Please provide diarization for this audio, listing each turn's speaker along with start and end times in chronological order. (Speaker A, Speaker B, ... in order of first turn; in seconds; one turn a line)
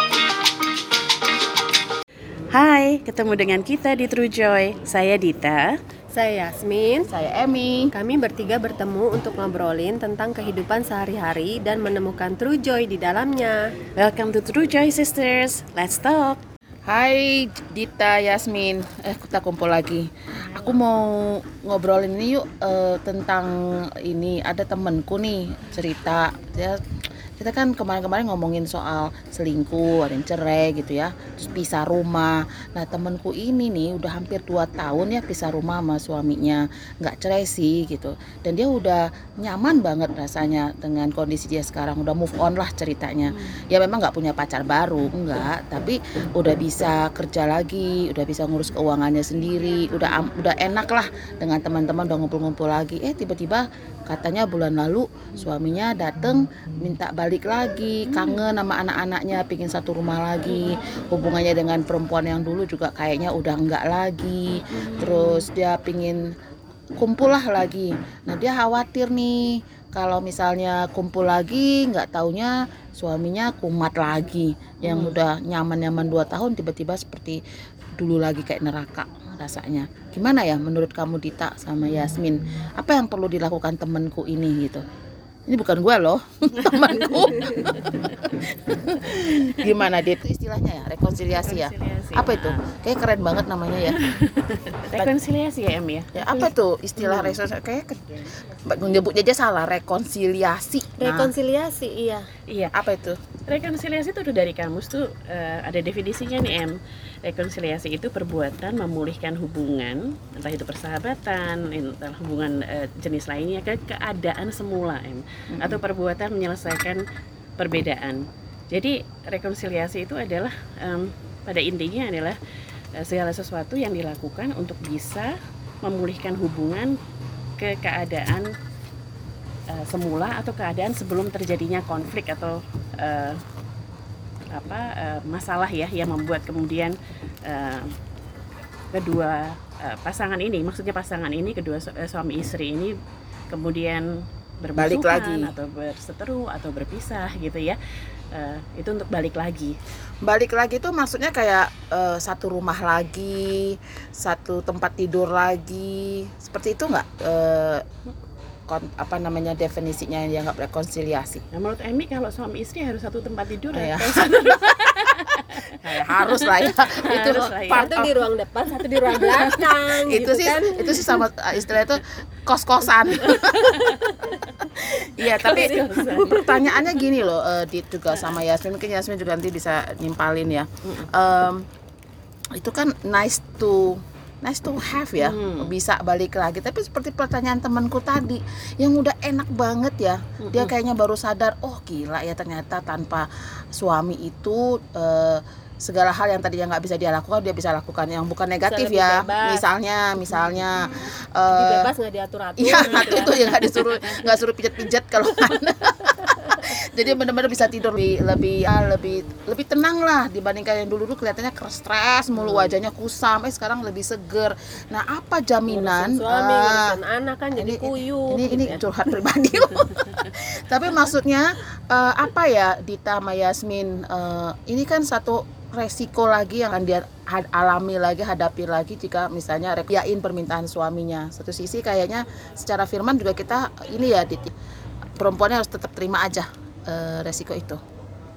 Speaker A: 2.5-5.7
Speaker B: 6.1-7.1
Speaker C: 7.1-7.9
Speaker B: 7.9-13.6
Speaker A: 14.0-16.4
Speaker C: 16.9-26.8
Speaker C: 27.4-66.3
Speaker A: 58.1-58.4
Speaker A: 64.7-65.5
Speaker C: 67.0-77.4
Speaker A: 74.8-75.2
Speaker C: 78.0-84.8
Speaker C: 85.5-94.0
Speaker A: 91.3-92.6
Speaker A: 93.9-97.4
Speaker C: 96.2-101.3
Speaker B: 101.0-102.3
Speaker A: 102.5-102.7
Speaker C: 102.7-103.2
Speaker A: 103.5-117.0
Speaker C: 115.5-115.8
Speaker A: 117.6-122.4
Speaker A: 123.0-127.0
Speaker A: 127.6-128.5
Speaker A: 129.7-133.4
Speaker A: 134.5-137.9
Speaker A: 138.9-142.9
Speaker A: 143.5-144.1
Speaker A: 144.6-147.8
Speaker C: 144.8-145.5
Speaker A: 148.3-149.8
Speaker C: 150.2-157.9
Speaker C: 158.7-161.4
Speaker A: 161.5-168.1
Speaker C: 163.7-165.2
Speaker C: 165.7-168.2
Speaker B: 167.7-171.2
Speaker C: 170.1-173.9
Speaker B: 173.3-174.4
Speaker A: 173.7-174.0
Speaker C: 174.6-181.7
Speaker A: 175.2-176.6
Speaker B: 175.3-176.6
Speaker A: 180.8-181.1
Speaker C: 182.5-201.9
Speaker A: 185.2-185.7
Speaker A: 190.4-190.7
Speaker B: 198.7-199.6
Speaker B: 201.5-203.7
Speaker C: 202.6-217.0
Speaker B: 206.3-206.6
Speaker A: 212.3-212.8
Speaker B: 215.7-218.8
Speaker C: 217.6-234.5
Speaker C: 235.2-237.8